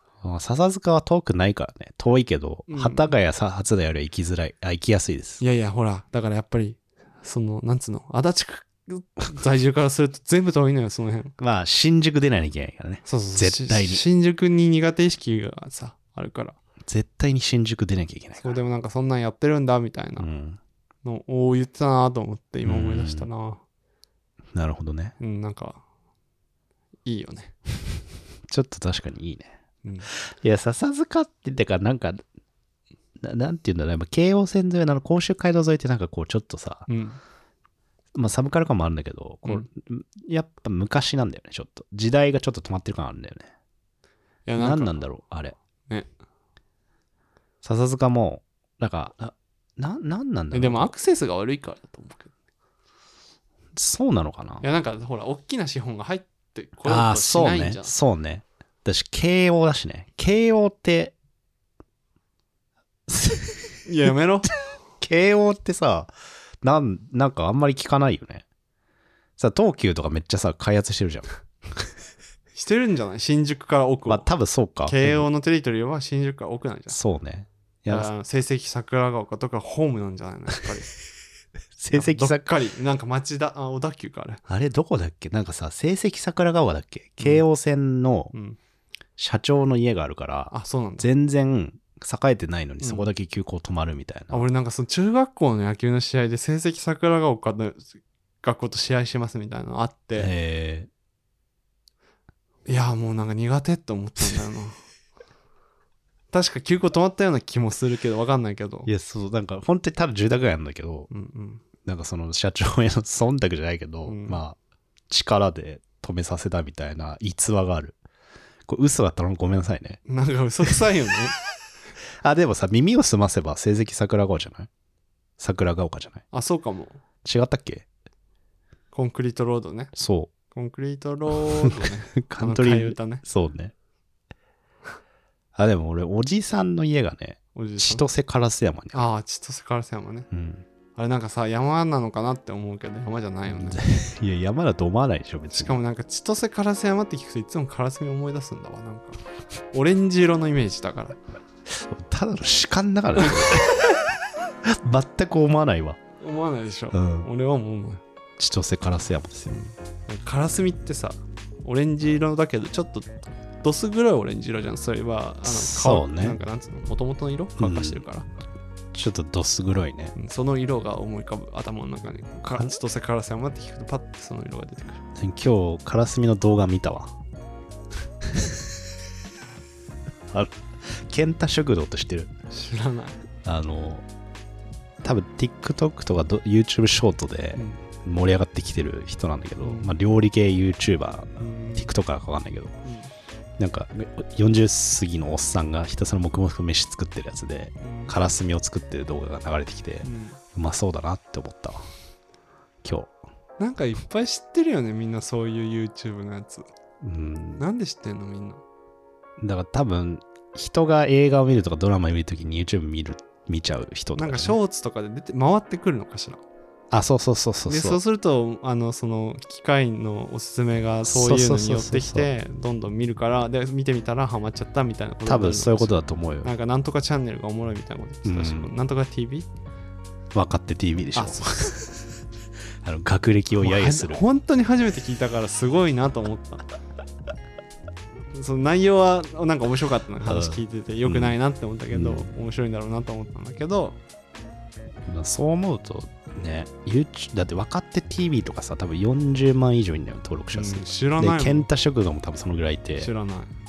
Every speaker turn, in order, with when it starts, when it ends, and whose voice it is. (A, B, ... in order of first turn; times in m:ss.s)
0:00.2-0:05.4 A
0:02.7-0:03.1 B
0:05.4-0:11.3 B
0:11.4-0:14.0 A
0:13.0-0:16.6 B
0:16.9-0:18.6 A
0:18.4-0:20.3 B
0:20.2-0:20.6 A
0:21.0-0:23.6 B
0:22.6-0:23.3 A
0:24.5-0:25.1 A
0:25.2-0:25.8 B
0:27.0-0:27.5 B
0:28.5-0:29.5 A
0:29.8-0:30.1 B
0:30.1-0:32.2 A
0:33.2-0:36.9 A
0:36.9-0:37.2 B
0:38.1-0:43.5 A
0:44.5-0:45.0 B
0:44.6-0:45.6 A
0:47.6-0:50.9 A
0:50.5-0:52.3 B
0:53.8-0:54.6 A
0:54.6-0:57.9 B
0:56.9-1:01.1 A
1:03.1-1:04.1 A
1:03.8-1:04.5 B
1:05.0-1:06.1 A
1:06.6-1:08.4 A
1:09.4-1:11.3 A
1:12.5-1:14.3 B
1:14.1-1:15.3 A
1:14.8-1:17.0 B
1:16.9-1:18.1 A
1:17.9-1:21.0 B
1:21.8-1:22.5 A
1:21.9-1:24.4 B
1:24.5-1:28.3 A
1:28.3-1:28.6 B
1:29.2-1:34.5 A
1:30.5-1:31.1 B
1:32.8-1:33.1 B
1:34.3-1:40.3 B
1:40.2-1:40.9 A
1:42.6-1:44.8 B
1:46.3-1:48.9 B
1:48.9-1:51.1 A
1:51.1-1:51.6 B
1:51.8-1:54.6 A
1:54.1-1:54.4 B
1:55.1-1:58.0 A
1:58.7-2:00.0 A
2:00.0-2:01.4 B
2:02.2-2:04.7 A
2:05.4-2:06.2 A
2:06.3-2:07.0 B
2:07.2-2:07.9 A
2:08.9-2:09.9 B
2:10.0-2:10.3 A
2:10.5-2:13.2 B
2:12.2-2:13.7 A
2:15.5-2:19.1 A
2:17.5-2:18.0 B
2:18.9-2:20.3 B
2:20.3-2:20.6 A
2:21.0-2:23.8 B
2:23.6-2:25.8 A
2:25.5-2:29.2 B
2:29.7-2:31.2 B
2:31.7-2:33.8 A
2:34.8-2:36.0 A
2:36.2-2:38.0 B
2:36.9-2:37.3 A
2:38.4-2:39.6 A
2:39.5-2:48.3 B
2:45.4-2:46.4 A
2:47.6-2:48.0 A
2:48.9-2:50.1 A
2:50.2-2:55.0 B
2:55.2-2:57.1 A
3:00.3-3:02.3 A
3:02.5-3:03.2 B
3:03.4-3:04.0 A
3:05.0-3:12.8 A
3:07.6-3:07.8 B
3:09.6-3:09.9 B
3:11.4-3:11.9 B
3:12.8-3:13.1 B
3:13.6-3:21.8 A
3:17.8-3:18.1 B
3:20.0-3:20.4 B
3:22.8-3:23.1 A
3:23.6-3:26.7 B
3:27.0-3:27.6 A
3:27.6-3:28.6 B
3:29.4-3:34.6 A
3:34.2-3:36.4 B
3:36.9-3:38.0 A
3:37.7-3:49.5 B
3:41.0-3:42.3 A
3:45.2-3:46.5 A
3:48.2-3:48.7 A
3:50.3-3:51.9 A
3:51.2-3:51.9 B
3:52.8-3:54.2 A
3:53.6-3:56.7 B
3:58.3-4:04.0 B
4:00.2-4:01.4 A
4:01.9-4:02.3 A
4:05.1-4:13.1 A
4:10.5-4:11.7 B
4:13.0-4:13.5 B